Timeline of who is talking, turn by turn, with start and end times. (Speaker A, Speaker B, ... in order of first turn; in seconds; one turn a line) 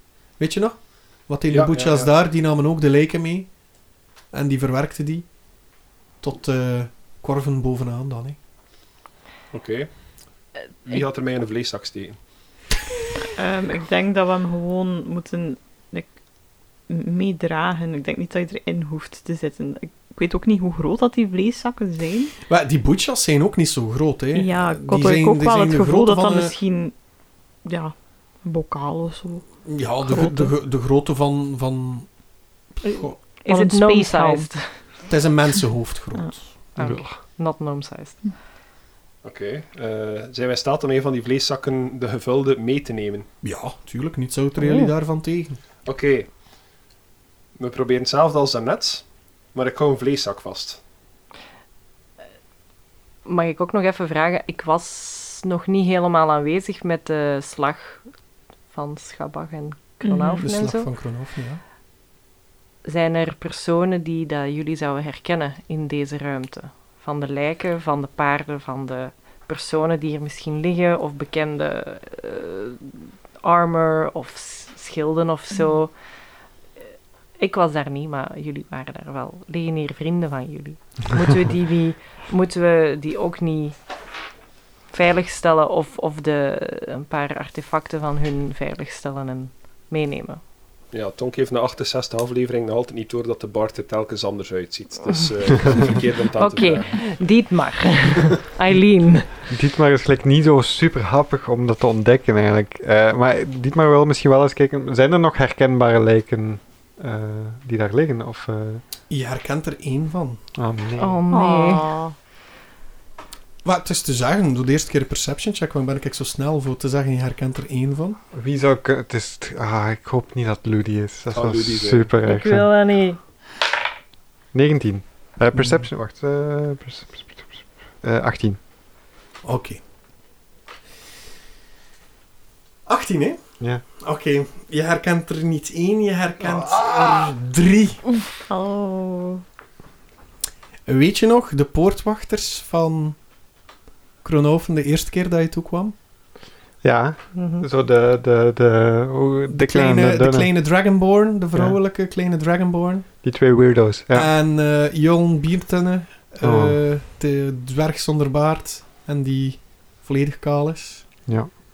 Speaker A: 0.3-3.6
Speaker B: 1.5-2.1
Speaker A: 4.3-5.4
Speaker A: 6.2-8.4
Speaker B: 9.5-9.9
Speaker B: 10.8-12.2
Speaker C: 13.4-16.1
Speaker C: 16.9-22.3
Speaker A: 22.5-26.5
Speaker C: 24.3-26.9
Speaker C: 27.6-30.5
Speaker A: 29.6-32.2
Speaker A: 32.8-33.2
Speaker C: 32.9-35.0
Speaker D: 33.4-34.8
Speaker A: 35.1-36.5
Speaker D: 36.8-38.3
Speaker E: 36.8-37.1
Speaker B: 39.2-43.3
Speaker A: 43.4-45.6
Speaker B: 45.8-46.3
Speaker B: 47.6-50.8
Speaker D: 53.2-58.1
Speaker D: 58.7-60.9
Speaker C: 60.0-60.4
Speaker A: 60.4-61.6
Speaker D: 62.8-76.0
Speaker D: 77.4-83.8
Speaker D: 84.9-90.4
Speaker B: 90.9-97.1
Speaker D: 96.4-99.3
Speaker E: 99.5-108.8
Speaker A: 109.1-110.4
Speaker E: 110.5-111.2
Speaker D: 111.0-111.9
Speaker C: 111.3-112.1
Speaker A: 113.6-118.2
Speaker E: 118.3-122.7
Speaker B: 121.3-122.1
Speaker D: 122.2-123.2
Speaker E: 124.5-128.6
Speaker A: 125.5-125.8
Speaker A: 129.4-129.8
Speaker A: 132.8-133.4
Speaker A: 134.0-138.0
Speaker C: 138.5-139.4
Speaker A: 140.8-143.2
Speaker A: 144.2-145.9
Speaker E: 146.8-150.5
Speaker A: 149.5-153.1
Speaker E: 153.2-154.3
Speaker A: 154.1-161.1
Speaker E: 156.4-156.8
Speaker E: 161.2-161.5